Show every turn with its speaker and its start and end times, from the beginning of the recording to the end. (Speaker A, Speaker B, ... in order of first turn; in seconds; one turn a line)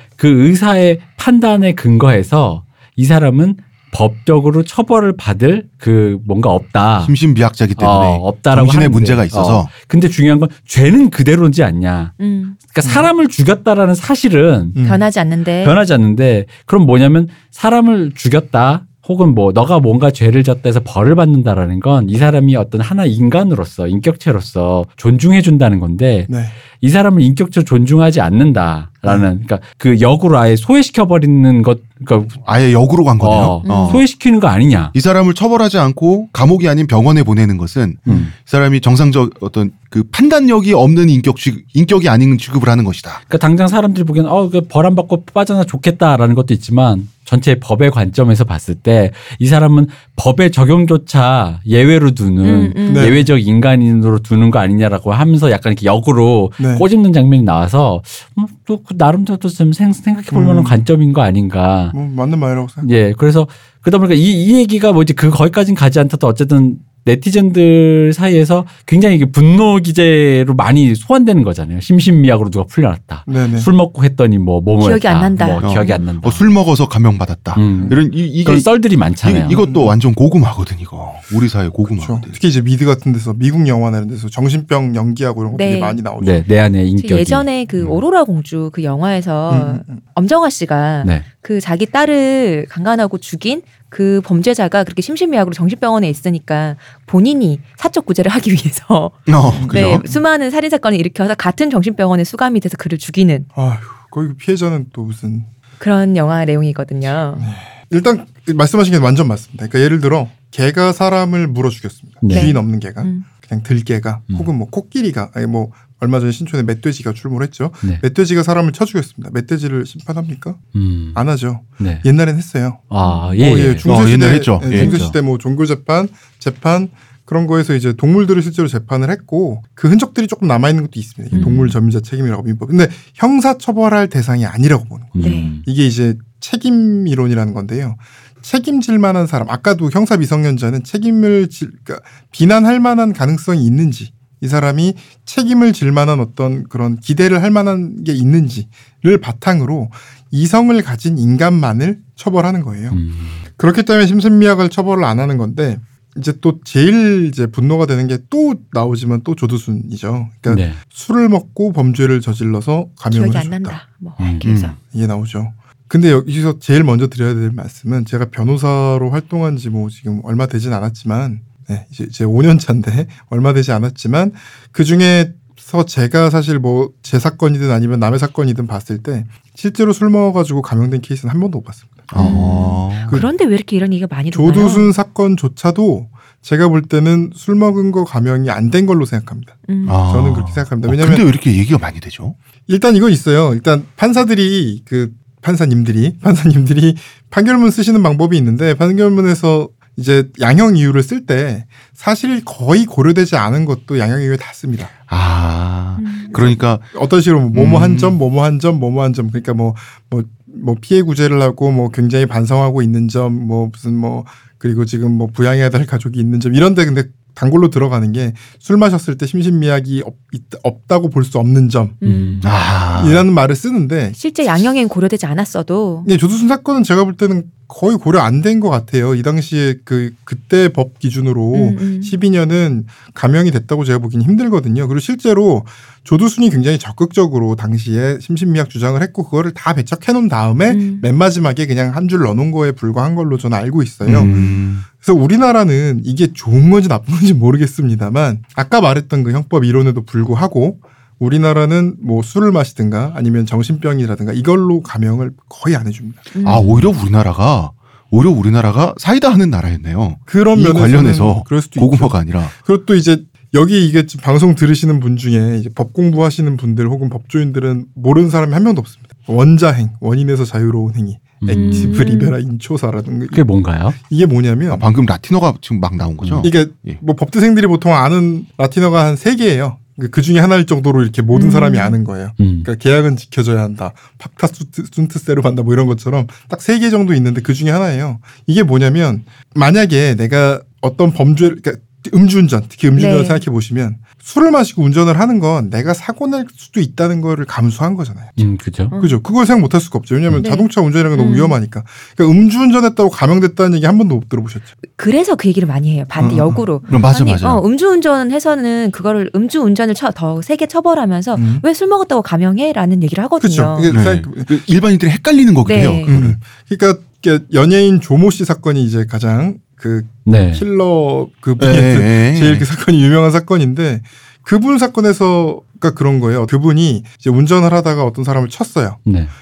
Speaker A: 0.2-7.1
Speaker B: 7.0-9.7
Speaker A: 7.8-14.8
Speaker C: 12.2-12.6
Speaker D: 12.8-13.1
Speaker D: 14.8-15.0
Speaker C: 14.8-15.8
Speaker A: 15.6-32.4
Speaker D: 26.3-26.5
Speaker B: 32.4-34.1
Speaker A: 33.2-34.9
Speaker C: 33.6-34.0
Speaker B: 34.9-43.2
Speaker A: 38.1-38.3
Speaker A: 43.3-62.0
Speaker C: 52.4-53.1
Speaker D: 52.9-53.3
Speaker D: 56.6-56.9
Speaker D: 60.3-60.9
Speaker D: 61.9-62.9
Speaker A: 62.8-76.6
Speaker D: 73.3-73.7
Speaker C: 74.8-76.0
Speaker B: 75.6-82.4
Speaker A: 77.5-79.6
Speaker D: 79.5-80.0
Speaker D: 81.9-86.5
Speaker C: 85.5-86.0
Speaker A: 86.2-88.0
Speaker C: 87.0-103.5
Speaker D: 89.5-90.0
Speaker B: 99.3-100.1
Speaker D: 99.5-100.2
Speaker D: 103.5-105.5
Speaker C: 105.8-107.5
Speaker D: 107.3-120.6
Speaker A: 112.2-112.6
Speaker C: 112.3-113.3
Speaker A: 120.7-121.2
Speaker D: 121.1-153.0
Speaker A: 121.8-122.0
Speaker A: 122.9-124.1
Speaker C: 123.0-123.4
Speaker B: 123.8-124.9
Speaker A: 124.7-125.2
Speaker C: 131.3-131.7
Speaker A: 131.3-131.8
Speaker A: 135.1-135.6
Speaker C: 135.2-135.5
Speaker A: 152.9-153.4
Speaker D: 153.6-163.8
Speaker A: 160.5-160.8
Speaker C: 163.1-164.8
Speaker A: 164.2-164.5
Speaker B: 164.4-164.8
Speaker D: 164.9-182.5
Speaker B: 182.1-183.2
Speaker C: 182.2-184.9
Speaker D: 183.0-183.3
Speaker D: 184.3-191.2
Speaker C: 189.7-190.0
Speaker B: 189.8-192.4
Speaker D: 192.7-204.9
Speaker B: 205.1-206.9
Speaker C: 206.0-206.3
Speaker D: 206.3-222.0
Speaker B: 207.5-208.2
Speaker C: 222.0-222.4
Speaker A: 222.0-222.5
Speaker B: 222.4-223.3
Speaker D: 223.0-224.7
Speaker C: 224.2-226.1
Speaker D: 226.1-244.3
Speaker C: 231.5-232.1
Speaker C: 240.7-241.0
Speaker B: 244.0-244.8
Speaker C: 244.2-244.6
Speaker D: 244.8-256.3
Speaker C: 256.4-256.7
Speaker B: 256.4-262.5
Speaker A: 256.6-256.9
Speaker D: 260.3-273.5
Speaker A: 271.4-272.1
Speaker C: 271.5-272.4
Speaker A: 273.3-274.0
Speaker D: 274.0-274.9
Speaker B: 274.7-277.0
Speaker A: 276.2-276.5
Speaker D: 276.4-304.7
Speaker C: 281.3-282.0
Speaker A: 282.4-282.7
Speaker C: 292.9-293.4
Speaker A: 298.4-298.9
Speaker C: 298.9-299.2
Speaker C: 300.3-301.6
Speaker C: 304.9-313.9
Speaker B: 306.2-307.6
Speaker D: 306.2-307.0
Speaker D: 311.4-311.6
Speaker D: 313.4-314.6
Speaker B: 313.9-316.4
Speaker C: 315.6-316.1
Speaker D: 316.1-329.1
Speaker A: 320.2-320.7
Speaker B: 321.6-322.6
Speaker A: 329.1-329.3